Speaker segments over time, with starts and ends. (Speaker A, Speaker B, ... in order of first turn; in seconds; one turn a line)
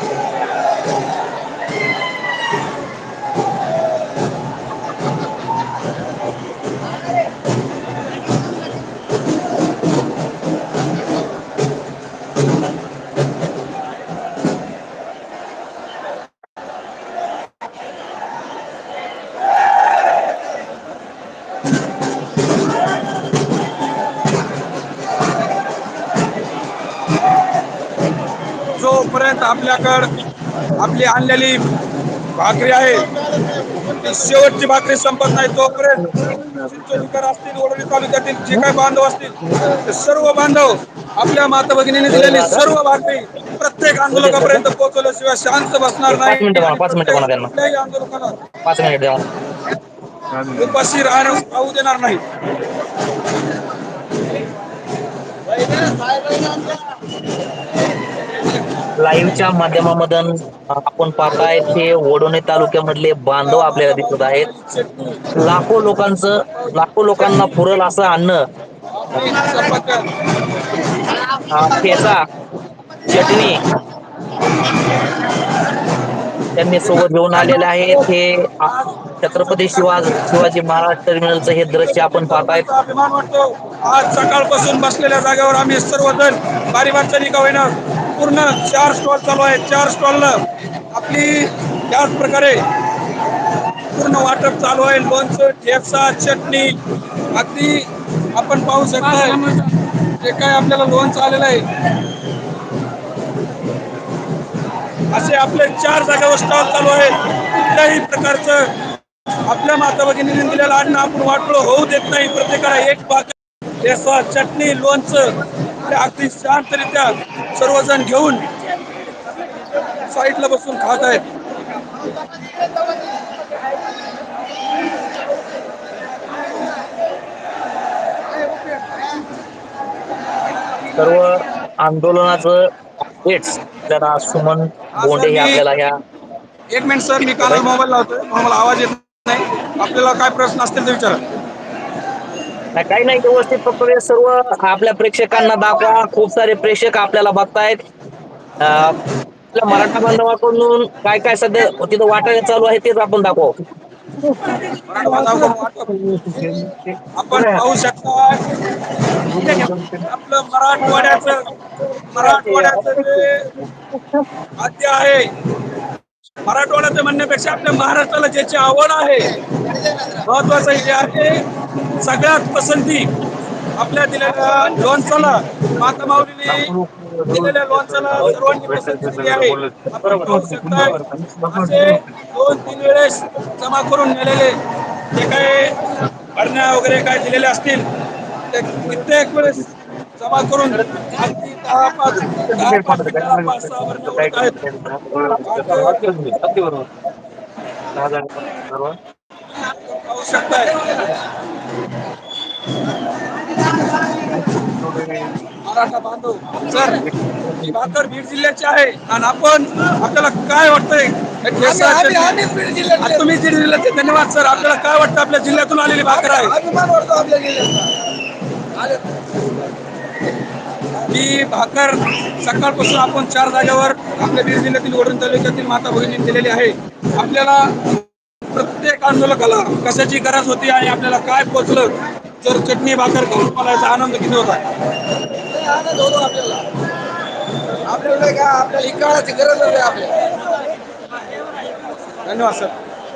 Speaker A: 28.8-30.1
Speaker A: 30.8-31.6
Speaker A: 32.4-33.1
Speaker A: 33.8-36.0
Speaker B: 36.0-36.9
Speaker A: 36.6-48.4
Speaker B: 42.1-42.6
Speaker B: 44.0-44.6
Speaker B: 46.1-47.5
Speaker B: 48.6-49.2
Speaker B: 50.3-50.6
Speaker A: 50.5-52.2
Speaker B: 59.0-64.5
Speaker A: 63.4-65.2
Speaker B: 65.3-68.4
Speaker A: 66.5-67.6
Speaker A: 68.9-70.1
Speaker B: 71.5-72.3
Speaker B: 73.0-73.7
Speaker B: 76.5-82.7
Speaker A: 76.8-78.1
Speaker A: 78.6-80.3
Speaker A: 81.7-92.6
Speaker A: 93.9-96.8
Speaker A: 97.3-99.4
Speaker C: 99.1-99.7
Speaker A: 100.2-101.7
Speaker A: 105.1-108.7
Speaker A: 109.5-118.5
Speaker A: 120.1-121.2
Speaker B: 131.0-132.7
Speaker B: 133.2-136.0
Speaker A: 134.9-135.6
Speaker A: 136.7-141.2
Speaker B: 142.7-147.8
Speaker B: 148.6-149.0
Speaker B: 149.5-153.6
Speaker B: 154.2-157.6
Speaker A: 154.8-155.9
Speaker A: 157.1-158.4
Speaker B: 159.2-160.0
Speaker A: 160.1-161.4
Speaker A: 162.1-163.5
Speaker B: 162.1-163.3
Speaker A: 164.6-165.3
Speaker A: 166.4-169.3
Speaker A: 170.2-171.4
Speaker A: 172.0-173.1
Speaker A: 173.8-176.7
Speaker B: 176.1-182.0
Speaker A: 177.3-184.6
Speaker A: 185.1-187.8
Speaker A: 188.5-194.6
Speaker B: 192.2-196.9
Speaker A: 195.4-196.1
Speaker B: 197.9-199.0
Speaker A: 199.7-201.0
Speaker B: 204.5-205.3
Speaker A: 205.6-207.0
Speaker B: 207.0-207.9
Speaker A: 207.6-212.4
Speaker C: 211.6-212.9
Speaker A: 213.0-216.6
Speaker C: 216.3-217.9
Speaker A: 221.1-234.6
Speaker C: 235.7-236.6
Speaker C: 238.1-239.9
Speaker A: 239.1-239.5
Speaker A: 242.2-242.7